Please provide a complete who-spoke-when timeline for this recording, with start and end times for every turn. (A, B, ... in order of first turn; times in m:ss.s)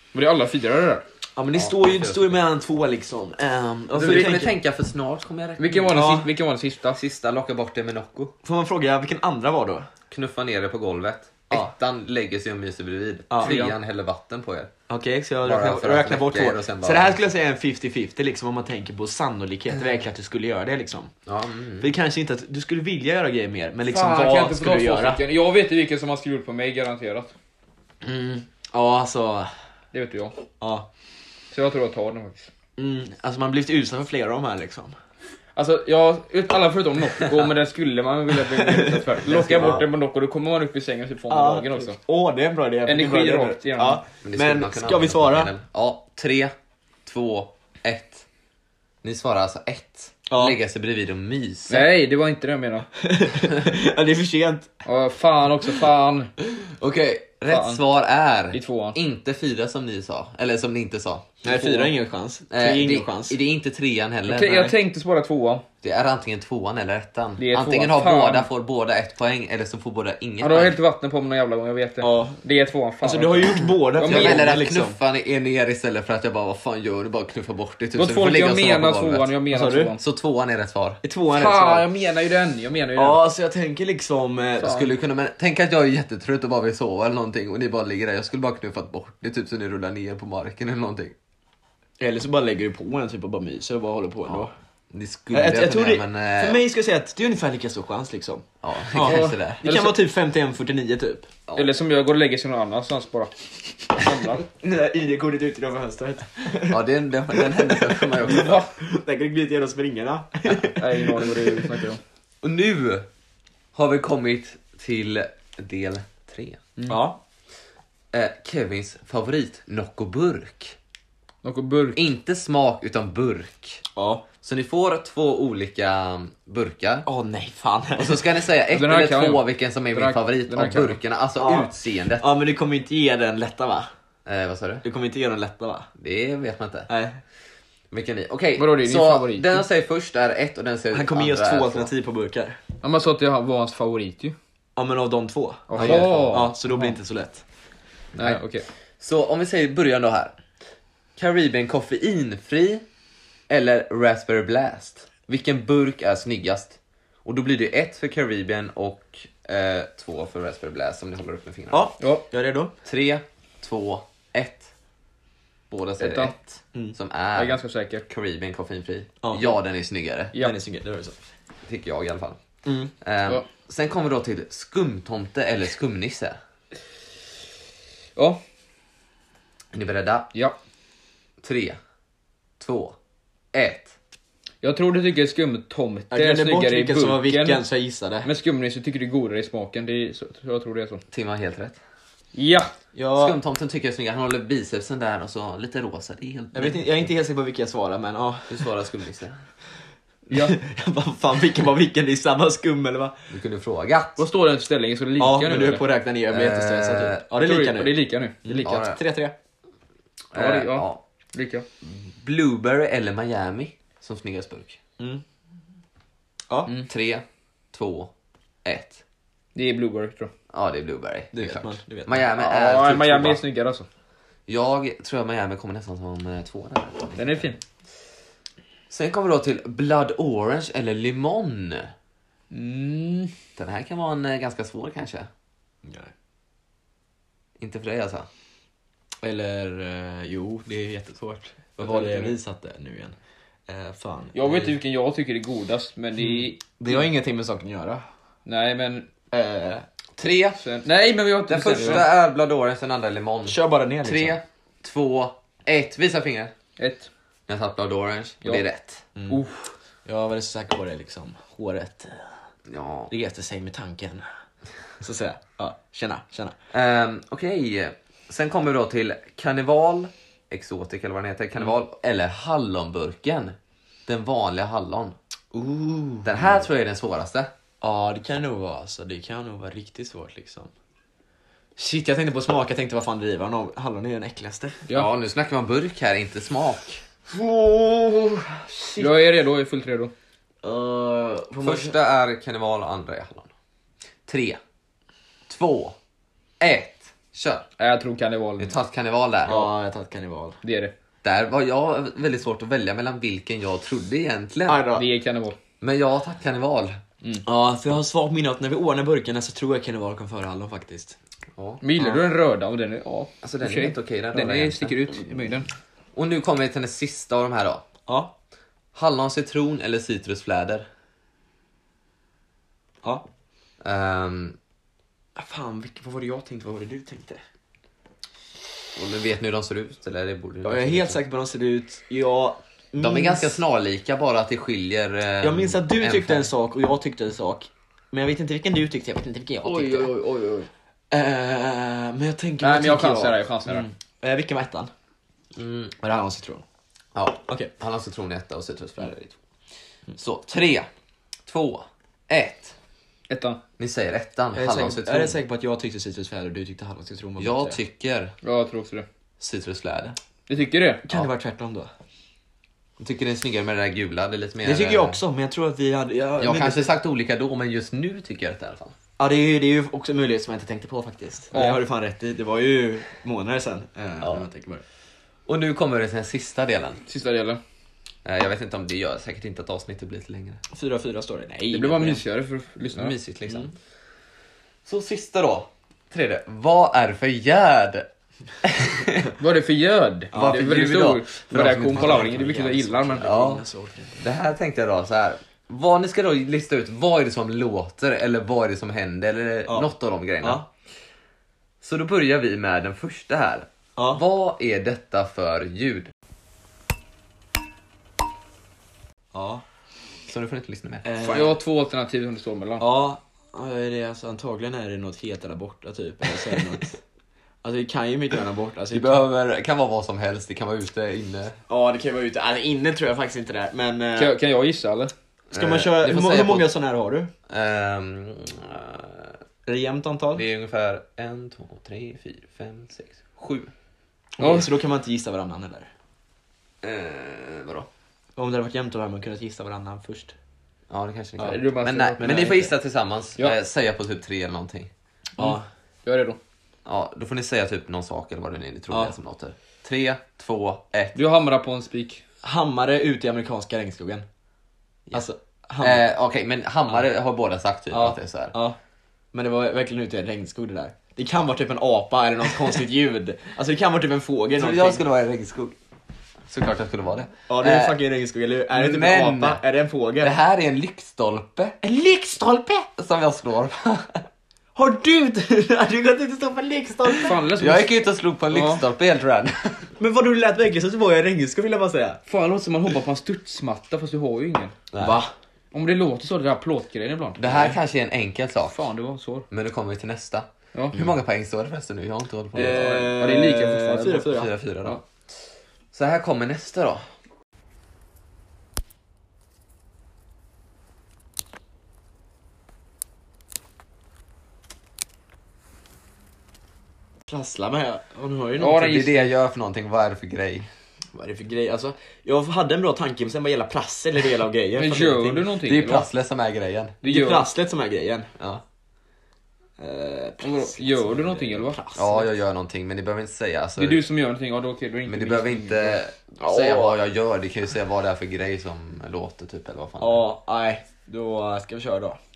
0:00.1-0:01.0 A
0:01.4-0:04.5 B
0:01.5-0:02.4 C
0:03.9-0:05.9 C
0:05.6-0:07.0 A
0:05.8-0:06.3 B
0:07.0-0:08.3 C
0:08.4-0:09.9 B
0:10.1-0:14.7 C
0:13.3-0:13.6 B
0:13.4-0:13.8 A
0:14.9-0:21.1 B
0:15.4-0:17.2 C
0:21.3-0:21.9 C
0:21.8-0:25.2 B
0:23.9-0:27.3 A
0:28.0-0:29.5 B
0:29.9-0:30.4 A
0:30.6-0:30.9 B
0:31.5-0:32.5 A
0:32.8-0:34.9 B
0:35.6-0:42.0 A
0:38.4-0:39.8 B
0:39.3-0:39.8 C
0:41.3-0:45.5 B
0:42.8-0:44.0 A
0:44.2-0:46.5 C
0:47.0-0:48.3 C
0:49.0-0:51.9 C
0:50.3-0:50.6 B
0:51.7-0:52.9 A
0:53.0-0:54.7 B
0:54.9-0:56.3 A
0:56.6-1:01.4 C
0:57.5-0:57.8 A
0:58.5-0:59.0 A
1:01.4-1:03.4 B
1:01.5-1:01.9 A
1:02.5-1:04.7 C
1:04.3-1:05.6 A
1:05.8-1:10.8 C
1:07.4-1:08.5 A
1:10.4-1:14.4 A
1:12.0-1:12.4 B
1:13.0-1:15.0 B
1:14.0-1:19.3 C
1:18.0-1:20.0 A
1:19.5-1:19.9 B
1:20.0-1:21.0 C
1:21.0-1:21.9 B
1:21.3-1:23.2 A
1:23.0-1:24.9 B
1:24.6-1:31.2 C
1:32.0-1:34.5 B
1:34.3-1:36.6 C
1:35.3-1:41.3 B
1:38.6-1:39.6 C
1:39.0-1:40.0 A
1:41.6-1:44.4 A
1:44.4-1:51.8 B
1:46.7-1:48.6 C
1:48.3-1:48.7 A
1:50.8-1:52.0 A
1:52.4-1:53.1 C
1:53.7-1:56.7 C
1:56.8-1:57.1 A
1:56.9-1:57.2 B
1:58.1-2:00.8 C
2:01.4-2:02.0 A
2:02.0-2:03.8 C
2:04.0-2:04.3 B
2:04.4-2:07.1 C
2:07.1-2:08.3 B
2:08.0-2:12.3 C
2:08.7-2:11.0 A
2:11.4-2:13.9 B
2:14.3-2:14.8 C
2:14.8-2:15.9 B
2:16.0-2:16.9 C
2:16.9-2:17.2 B
2:17.9-2:21.9 C
2:18.6-2:19.6 A
2:20.9-2:22.6 B
2:22.8-2:24.4 A
2:24.8-2:27.4 B
2:25.7-2:27.0 A
2:25.8-2:26.5 C
2:28.2-2:28.7 A
2:29.0-2:30.4 C
2:31.2-2:32.8 C
2:33.5-2:41.9 C
2:41.7-2:42.7 B
2:42.0-2:42.2 A
2:42.8-2:44.7 C
2:45.7-2:50.4 C
2:46.0-2:46.3 A
2:47.4-2:48.1 A
2:49.2-2:49.6 B
2:50.4-2:51.2 B
2:51.7-2:52.4 C
2:52.6-2:52.9 B
2:53.0-2:56.4 C
2:58.2-2:58.4 A
2:59.7-3:00.3 C
3:01.4-3:01.8 C
3:02.6-3:03.0 C
3:03.5-3:03.9 C
3:04.6-3:07.6 A
3:06.1-3:08.3 B
3:08.2-3:11.0 A
3:11.1-3:11.8 C
3:12.4-3:12.7 A
3:13.0-3:13.4 B
3:13.2-3:17.1 C
3:16.5-3:18.7 B
3:18.5-3:19.4 C
3:20.3-3:20.6 A
3:20.3-3:23.2 B
3:23.3-3:24.3 C
3:24.2-3:25.9 A
3:25.2-3:29.3 B
3:26.3-3:27.2 C
3:27.4-3:28.8 A
3:28.6-3:29.0 C
3:30.3-3:31.0 C
3:30.4-3:31.7 A
3:31.8-3:34.8 C
3:36.5-3:36.8 B
3:36.9-3:38.1 C
3:38.6-3:39.0 C
3:39.6-3:40.3 A
3:40.5-3:43.4 C
3:41.3-3:42.3 B
3:42.4-3:43.9 A
3:44.5-3:47.5 C
3:47.2-3:47.6 A
3:48.9-3:51.9 C
3:52.5-3:53.3 A
3:53.6-3:55.3 C
3:55.8-3:56.1 B
3:57.6-3:58.3 C
3:59.2-4:03.2 B
4:01.8-4:02.3 A
4:03.7-4:04.7 B
4:04.3-4:07.1 A
4:06.2-4:08.0 B
4:08.5-4:09.1 A
4:09.3-4:09.8 B
4:10.2-4:10.6 C
4:10.6-4:12.1 A
4:11.5-4:16.5 C
4:13.5-4:14.4 B
4:16.8-4:17.1 A
4:17.5-4:19.0 C
4:19.2-4:19.4 B
4:19.3-4:19.7 A
4:20.1-4:22.3 B
4:22.7-4:23.1 C
4:23.1-4:24.2 B
4:25.0-4:26.6 B
4:26.7-4:33.6 C
4:34.1-4:35.2 C
4:35.5-4:36.6 B
4:36.2-4:37.5 C
4:37.8-4:40.7 B
4:41.8-4:44.9 B
4:44.9-4:47.0 C
4:47.3-4:49.2 B
4:49.0-4:50.1 A
4:50.6-4:52.0 B
4:51.6-4:53.5 C
4:54.3-4:54.6 C
4:55.5-4:56.0 C
4:56.6-4:57.7 C
4:57.8-4:58.7 A
4:58.6-4:59.7 C
4:59.5-5:00.6 B
5:00.6-5:00.9 A
5:01.2-5:04.9 C
5:04.7-5:05.0 B
5:04.9-5:05.6 A
5:05.8-5:07.0 C
5:07.4-5:11.2 B
5:11.6-5:11.8 C
5:11.8-5:15.7 A
5:13.4-5:15.1 C
5:16.2-5:17.8 C
5:18.1-5:18.3 B
5:18.9-5:20.9 C
5:23.8-5:24.6 C
5:25.4-5:27.4 B
5:29.0-5:31.2 C
5:30.6-5:33.6 B
5:33.0-5:36.5 C
5:35.4-5:40.1 B
5:39.6-5:40.7 A
5:41.1-5:44.9 B
5:42.6-5:43.9 A
5:45.6-5:45.9 C
5:46.0-5:46.6 B
5:47.2-5:49.4 C
5:50.2-5:50.9 C
5:51.5-5:52.8 C
5:53.3-5:53.6 A
5:53.8-5:55.4 C
5:54.6-5:57.8 B
5:57.4-5:58.3 C
5:58.4-5:59.1 A
5:59.4-6:00.2 C
6:00.5-6:01.0 A
6:01.0-6:01.9 B
6:03.0-6:05.2 C
6:04.6-6:06.9 B
6:06.4-6:09.0 C
6:09.2-6:14.8 B
6:11.5-6:11.8 A
6:15.5-6:17.0 C
6:17.1-6:17.6 A
6:18.2-6:20.6 C
6:20.7-6:22.2 B
6:21.7-6:23.2 A
6:22.9-6:23.7 C
6:24.9-6:28.1 C
6:28.6-6:29.3 C
6:29.4-6:33.3 A
6:30.3-6:30.8 B
6:30.4-6:32.4 C
6:31.9-6:34.3 B
6:33.2-6:33.6 C
6:34.2-6:40.6 C
6:40.4-6:40.7 B
6:41.8-6:46.1 C
6:44.0-6:44.2 B
6:49.3-6:49.6 B
6:50.3-6:51.1 C
6:51.1-6:51.6 B
6:51.2-6:52.9 A
6:52.8-6:57.0 B
6:57.6-6:59.2 B
6:58.9-7:01.6 C
7:01.7-7:04.4 B
7:04.2-7:05.1 A
7:05.5-7:06.7 C
7:05.5-7:07.3 B
7:07.5-7:09.4 C
7:09.7-7:10.4 B
7:10.4-7:13.7 C
7:14.4-7:15.9 B
7:14.4-7:14.7 A
7:16.8-7:17.9 C
7:18.4-7:20.4 B
7:20.9-7:24.9 C
7:21.4-7:22.6 A
7:22.2-7:22.7 B
7:25.4-7:25.6 B
7:25.4-7:26.4 A
7:26.9-7:31.2 C
7:31.2-7:32.2 A
7:32.4-7:34.2 B
7:35.1-7:36.0 B
7:35.8-7:38.6 C
7:37.9-7:38.8 B
7:39.3-7:45.0 B
7:44.6-7:45.8 C
7:46.5-7:48.0 C
7:47.5-7:50.3 B
7:48.7-7:49.6 C
7:50.2-7:51.8 C
7:51.8-7:52.9 B
7:53.0-7:54.2 C
7:54.8-7:57.4 B
7:57.2-7:57.9 A
7:57.6-7:59.9 C
7:58.5-7:58.8 A
8:00.0-8:02.2 B
8:02.3-8:04.8 A
8:04.9-8:05.2 C
8:05.0-8:05.3 B
8:05.7-8:07.7 A
8:07.4-8:08.8 C
8:08.7-8:09.5 A
8:09.5-8:13.0 C
8:10.8-8:11.0 A
8:12.5-8:14.5 B
8:12.6-8:14.3 A
8:14.3-8:15.0 C
8:15.9-8:17.1 C
8:27.3-8:28.9 B
8:28.6-8:29.3 A
8:28.7-8:30.7 C
8:31.1-8:35.5 B
8:34.8-8:36.1 A
8:35.6-8:37.0 C
8:37.0-8:37.5 A
8:37.0-8:38.3 B
8:38.4-8:38.6 C
8:39.8-8:42.3 B
8:40.4-8:41.8 A
8:42.0-8:44.0 C
8:43.8-8:46.0 A
8:45.1-8:50.2 C
8:46.4-8:47.0 B
8:50.0-8:52.2 B